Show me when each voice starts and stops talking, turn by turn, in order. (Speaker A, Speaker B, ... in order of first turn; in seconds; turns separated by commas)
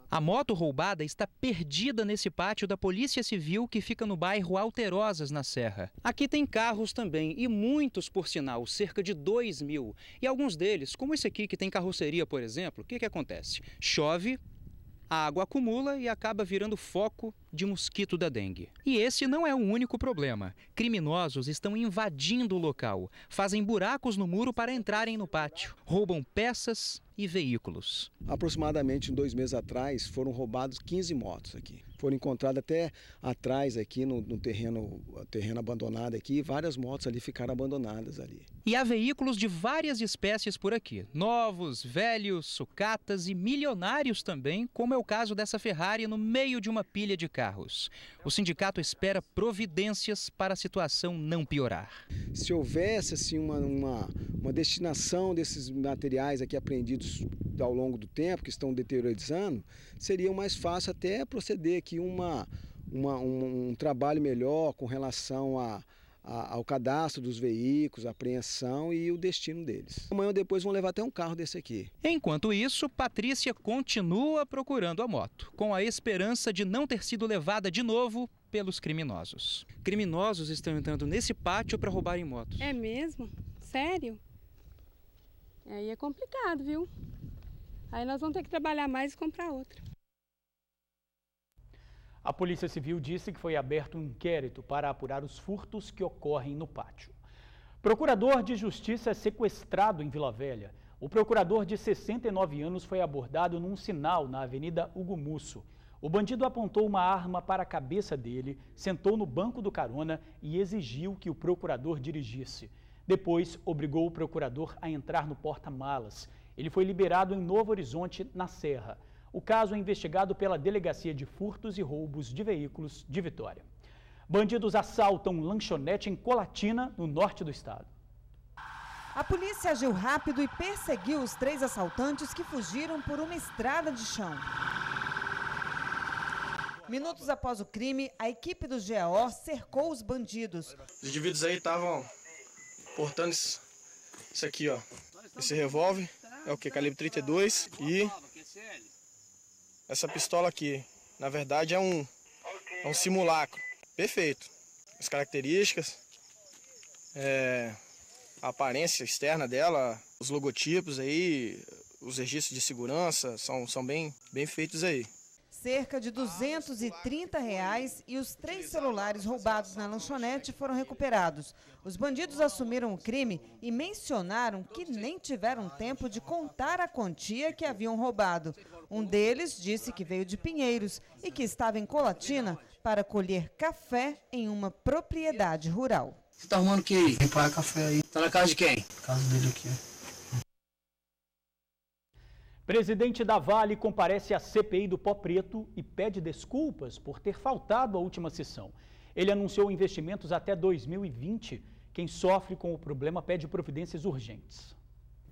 Speaker A: 0.1-14.4, Speaker A: 15.1-28.1, Speaker B: 28.3-38.5, Speaker A: 38.6-52.0, Speaker B: 52.3-71.9, Speaker A: 72.0-82.7, Speaker C: 85.7-86.8, Speaker C: 88.6-89.7, Speaker D: 92.2-97.1, Speaker D: 97.8-123.7, Speaker D: 124.3-127.9, Speaker E: 129.2-134.4, Speaker E: 136.9-140.7, Speaker F: 141.0-142.1, Speaker F: 143.0-143.6, Speaker F: 144.3-144.8, Speaker F: 145.3-148.2, Speaker F: 149.9-152.1, Speaker F: 152.8-156.0, Speaker F: 157.2-157.8, Speaker F: 158.4-165.1, Speaker E: 165.5-186.2, Speaker G: 186.4-189.8, Speaker D: 192.7-204.8